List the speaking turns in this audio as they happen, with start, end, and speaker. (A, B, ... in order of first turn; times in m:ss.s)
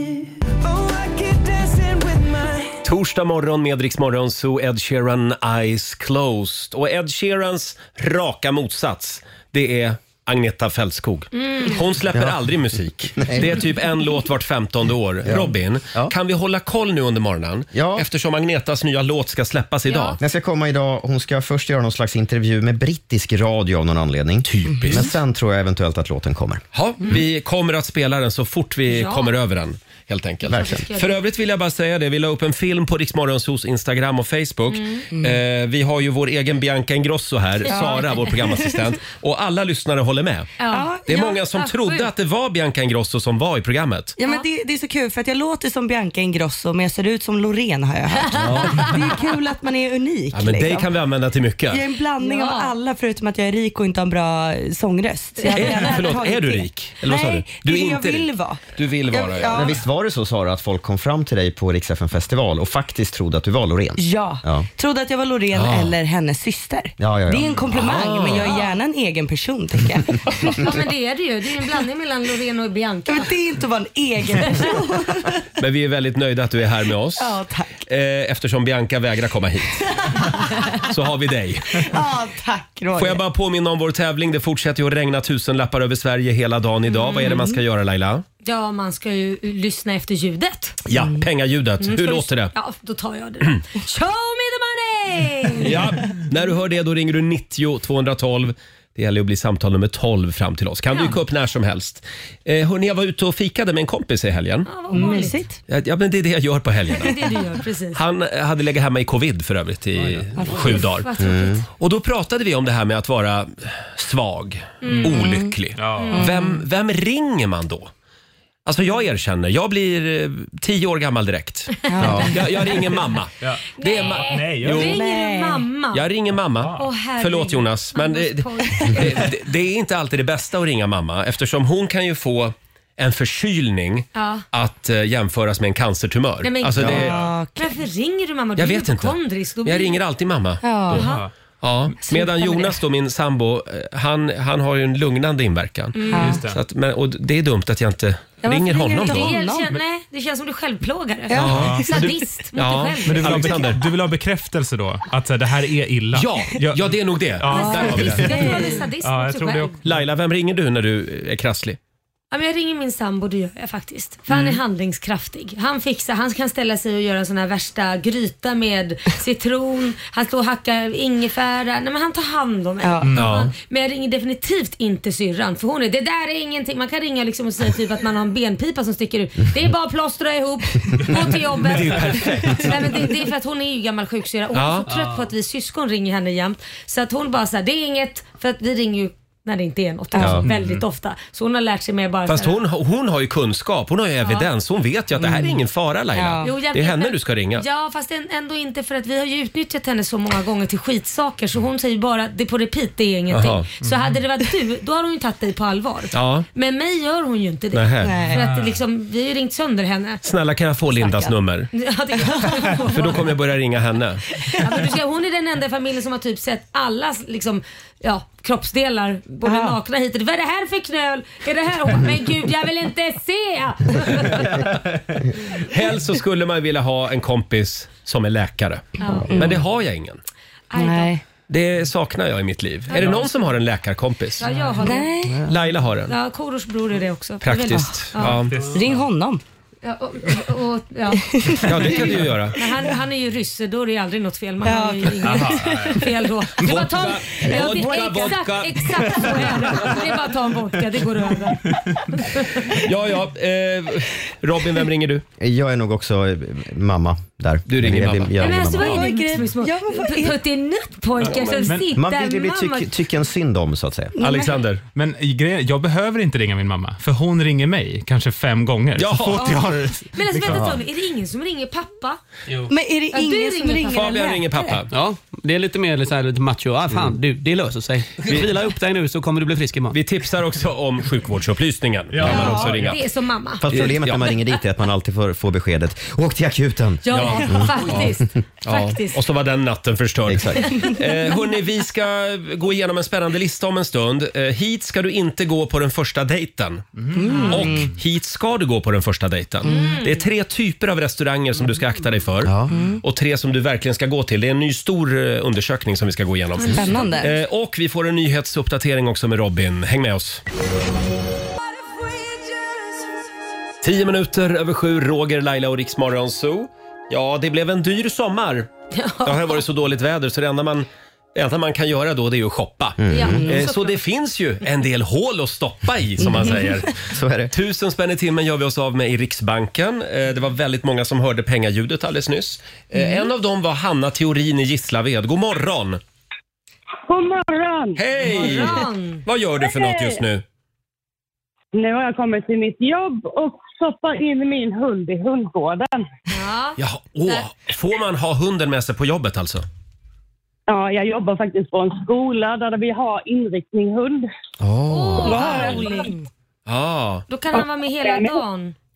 0:02.8-0:20.2 A
0:11.4-0:11.8 B
0:12.1-0:12.5 C
0:13.2-0:13.6 C
0:15.2-0:16.1 C
0:17.7-0:18.1 C
0:19.9-0:20.2 B
0:20.2-0:26.6 C
0:24.5-0:25.1 A
0:26.7-0:40.6 A
0:28.9-0:29.3 B
0:30.5-0:30.8 C
0:30.5-0:31.2 B
0:34.7-0:35.1 B
0:35.1-0:35.4 D
0:37.7-0:38.0 B
0:37.7-0:39.0 D
0:40.6-0:42.1 B
0:40.7-0:41.3 D
0:41.1-0:44.2 A
0:44.2-0:50.9 D
0:48.1-0:49.2 B
0:48.4-0:48.9 A
0:50.3-0:51.8 A
0:51.7-0:59.7 D
0:52.2-0:52.7 B
0:55.4-0:56.0 B
0:55.4-0:59.8 A
0:59.5-1:04.7 C
1:04.0-1:10.7 D
1:05.5-1:05.9 A
1:07.0-1:07.6 C
1:07.7-1:08.6 A
1:08.4-1:08.7 B
1:10.4-1:13.3 B
1:13.1-1:15.4 D
1:14.4-1:14.7 B
1:15.6-1:19.8 A
1:17.2-1:17.8 D
1:20.1-1:20.8 D
1:20.8-1:21.9 A
1:21.8-1:23.2 D
1:23.0-1:28.2 A
1:26.9-1:27.4 B
1:27.2-1:27.6 D
1:28.4-1:30.8 B
1:30.9-1:32.5 A
1:30.9-1:31.2 D
1:31.8-1:35.8 B
1:35.6-1:44.7 A
1:40.9-1:41.2 B
1:44.7-1:45.4 B
1:44.9-1:45.6 D
1:45.7-1:47.2 A
1:47.0-1:48.0 B
1:47.9-1:51.1 A
1:50.0-1:50.8 E
1:50.5-1:51.6 B
1:51.2-1:51.6 C
1:51.8-1:57.9 A
1:54.8-1:55.2 B
1:55.2-1:55.5 D
1:55.8-1:56.2 E
1:56.0-1:56.3 B
1:56.1-1:56.6 D
1:58.6-2:05.0 A
2:01.9-2:02.4 D
2:02.0-2:02.2 B
2:02.0-2:02.3 C
2:03.8-2:06.0 B
2:04.2-2:05.0 E
2:04.9-2:05.7 D
2:05.9-2:17.2 A
2:06.8-2:09.2 B
2:14.2-2:14.4 B
2:16.4-2:20.0 B
2:16.8-2:17.1 C
2:16.8-2:17.3 E
2:17.1-2:17.7 D
2:18.6-2:21.0 A
2:20.6-2:21.0 D
2:20.9-2:21.2 B
2:20.9-2:21.3 E
2:21.6-2:29.4 A
2:22.0-2:22.8 D
2:26.0-2:26.4 B
2:26.1-2:26.4 D
2:26.2-2:26.6 E
2:28.4-2:29.7 D
2:29.0-2:33.8 B
2:31.3-2:32.1 D
2:31.3-2:32.0 A
2:31.5-2:31.9 E
2:32.5-2:33.8 A
2:33.0-2:39.8 E
2:36.1-2:38.4 A
2:37.5-2:39.8 B
2:39.8-2:41.8 A
2:42.3-3:12.6 B
2:44.3-2:44.6 A
2:52.8-2:53.2 D
2:53.1-2:53.4 E
2:53.2-2:53.5 A
3:01.1-3:03.0 A
3:04.5-3:04.9 A
3:10.2-3:10.4 C
3:10.4-3:10.8 E
3:12.3-3:17.6 A
3:16.2-3:16.5 D
3:16.4-3:30.2 B
3:23.3-3:23.7 A
3:23.8-3:24.2 E
3:26.1-3:26.5 A
3:27.7-3:28.2 A
3:28.0-3:28.4 D
3:28.3-3:28.8 E
3:30.2-3:31.7 A
3:31.0-3:31.3 D
3:31.7-3:33.3 B
3:32.8-3:34.2 A
3:34.6-3:44.7 B
3:39.4-3:39.8 D
3:45.5-3:50.2 A
3:49.0-3:49.4 B
3:49.3-3:49.6 D
3:50.7-3:51.1 B
3:50.8-3:51.2 D
3:51.5-3:54.5 A
3:52.9-3:53.5 B
3:54.4-3:55.1 B
3:54.5-3:54.8 E
3:54.8-3:55.5 D
3:55.4-3:56.2 A
3:56.1-3:58.4 B
3:57.4-3:58.6 A
3:57.7-3:59.4 D
3:58.4-3:59.0 E
3:59.8-4:12.7 B
4:01.3-4:01.9 D
4:01.6-4:02.6 A
4:04.6-4:06.0 D
4:05.2-4:06.0 E
4:06.6-4:09.9 A
4:12.7-4:15.2 A
4:15.4-4:19.0 C
4:17.7-4:18.9 A
4:18.4-4:22.9 B
4:18.7-4:20.4 D
4:21.2-4:21.7 A
4:21.6-4:21.9 E
4:21.9-4:24.1 C
4:24.2-4:24.6 D
4:24.2-4:24.8 A
4:24.9-4:30.7 E
4:29.0-4:29.6 A
4:30.1-4:32.2 B
4:32.7-4:34.8 D
4:33.1-4:34.1 B
4:33.9-4:34.9 A
4:34.9-4:40.0 F
4:39.9-4:43.0 A
4:42.2-4:43.0 E
4:42.2-4:43.7 B
4:43.6-4:48.1 C
4:43.7-4:44.4 A
4:47.0-4:49.2 B
4:47.1-4:48.1 A
4:48.6-5:10.4 A
4:50.3-4:50.6 C
4:50.6-4:50.9 B
4:57.0-4:57.7 E
4:57.1-4:57.9 D
4:59.6-5:00.2 B
5:02.4-5:02.7 C
5:02.7-5:03.0 D
5:06.6-5:07.3 B
5:06.7-5:07.3 D
5:13.8-5:18.7 A
5:18.9-5:19.6 B
5:19.2-5:27.0 A
5:23.0-5:23.5 C
5:23.1-5:24.0 B
5:26.2-5:26.9 D
5:27.0-5:27.5 C
5:27.5-5:36.0 A
5:37.1-5:38.7 G
5:38.0-5:40.4 A
5:38.3-5:39.2 B
5:39.6-5:40.2 G
5:41.8-5:46.1 G
5:46.3-5:47.4 B
5:46.8-5:49.6 A
5:50.7-5:54.3 G
5:54.6-5:55.5 C
5:54.9-5:56.2 B
5:55.2-5:56.1 G
5:55.2-5:55.9 A
5:56.7-5:57.3 A
5:57.3-5:58.8 B
5:57.5-5:58.4 G